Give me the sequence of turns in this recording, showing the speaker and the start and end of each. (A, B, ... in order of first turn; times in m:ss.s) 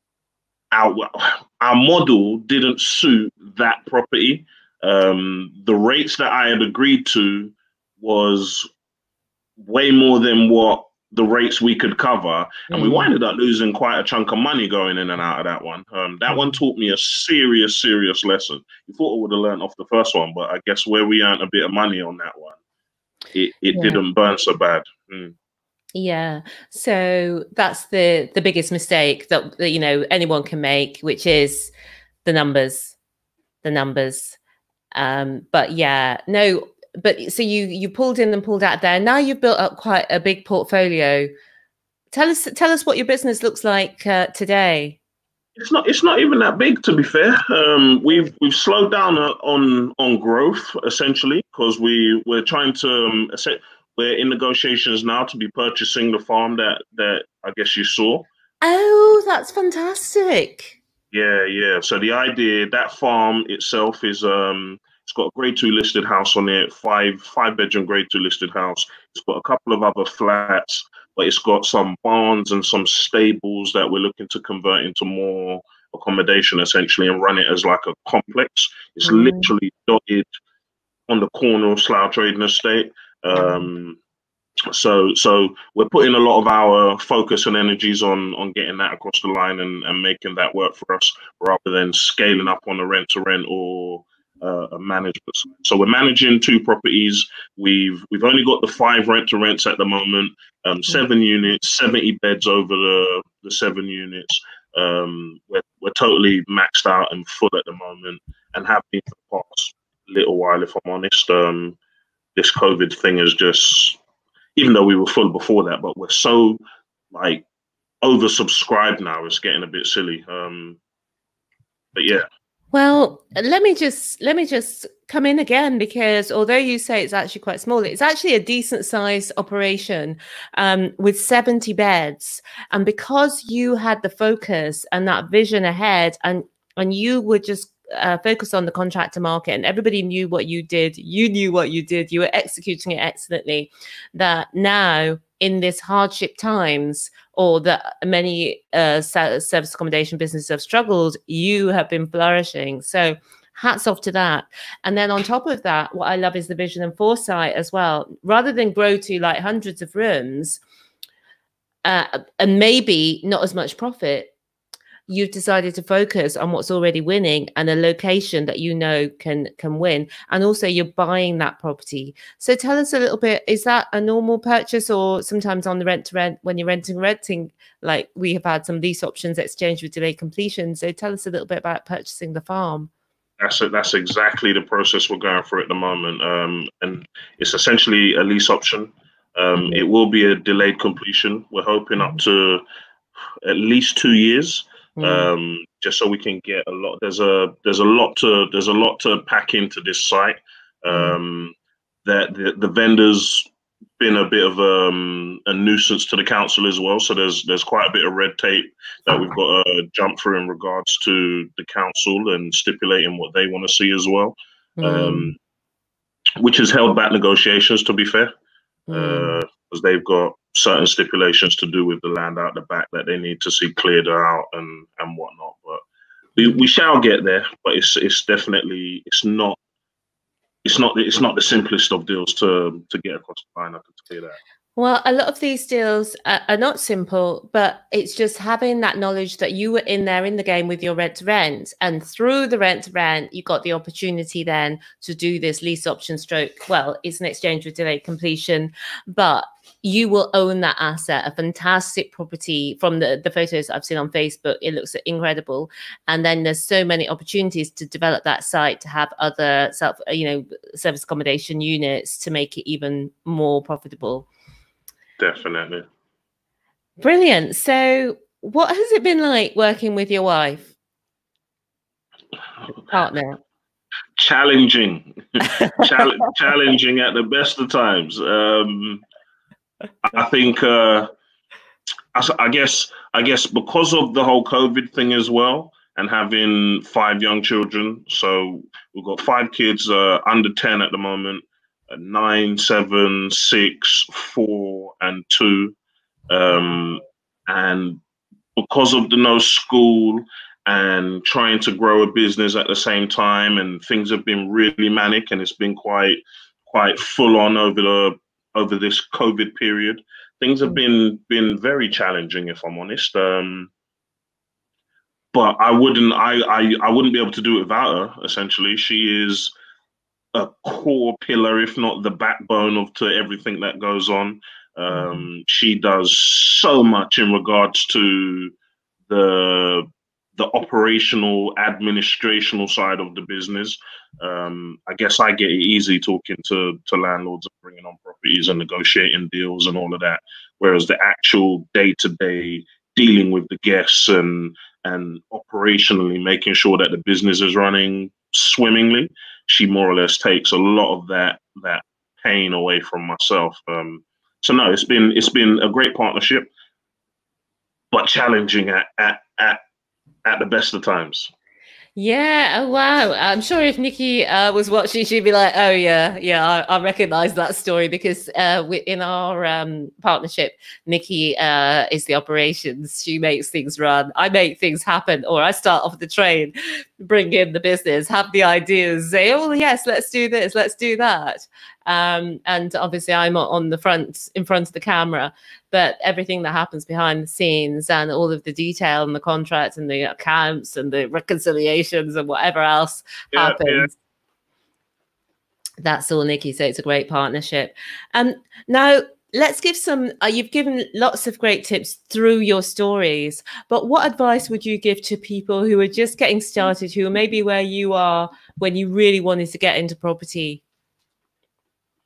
0:00.7-0:08.7 A
0:09.6-0:22.6 A
0:12.7-0:13.1 B
0:23.3-0:25.3 A
0:23.7-0:24.0 B
0:25.9-0:31.7 B
0:32.2-0:33.0 B
0:33.6-0:34.4 B
0:34.9-0:41.3 B
0:42.1-0:45.0 B
0:45.6-0:58.3 A
0:58.6-1:00.8 B
1:01.1-1:20.2 A
1:19.0-1:19.5 B
1:21.1-1:24.0 A
1:23.3-1:23.7 B
1:24.7-1:51.8 A
1:52.4-1:54.0 A
1:54.6-1:56.6 A
1:57.1-1:57.4 A
1:58.0-2:00.8 A
2:01.9-2:02.2 A
2:02.7-2:40.6 B
2:41.8-2:44.3 B
2:45.1-3:02.9 B
3:03.4-3:12.6 A
3:09.6-3:09.8 B
3:13.4-3:23.5 A
3:15.0-3:15.3 B
3:20.9-3:21.2 B
3:24.0-3:35.4 A
3:34.8-3:35.3 B
3:36.4-3:38.3 A
3:38.9-3:39.4 B
3:38.9-3:45.8 A
3:46.4-3:49.6 A
3:50.6-3:54.4 A
3:54.8-4:24.3 B
4:25.2-4:25.9 A
4:27.0-4:30.7 B
4:32.9-4:33.4 B
4:34.2-4:39.0 A
4:35.4-4:36.2 B
4:40.0-4:41.1 A
4:42.1-4:55.8 A
4:56.3-4:58.0 A
4:58.6-5:13.7 A
5:15.3-5:19.5 A
5:20.3-5:28.5 A
5:24.9-5:25.3 B
5:29.1-5:56.5 A
5:57.9-5:59.6 A
6:00.2-6:01.3 A
6:02.0-6:33.9 B
6:33.3-6:33.9 A
6:35.8-6:50.6 B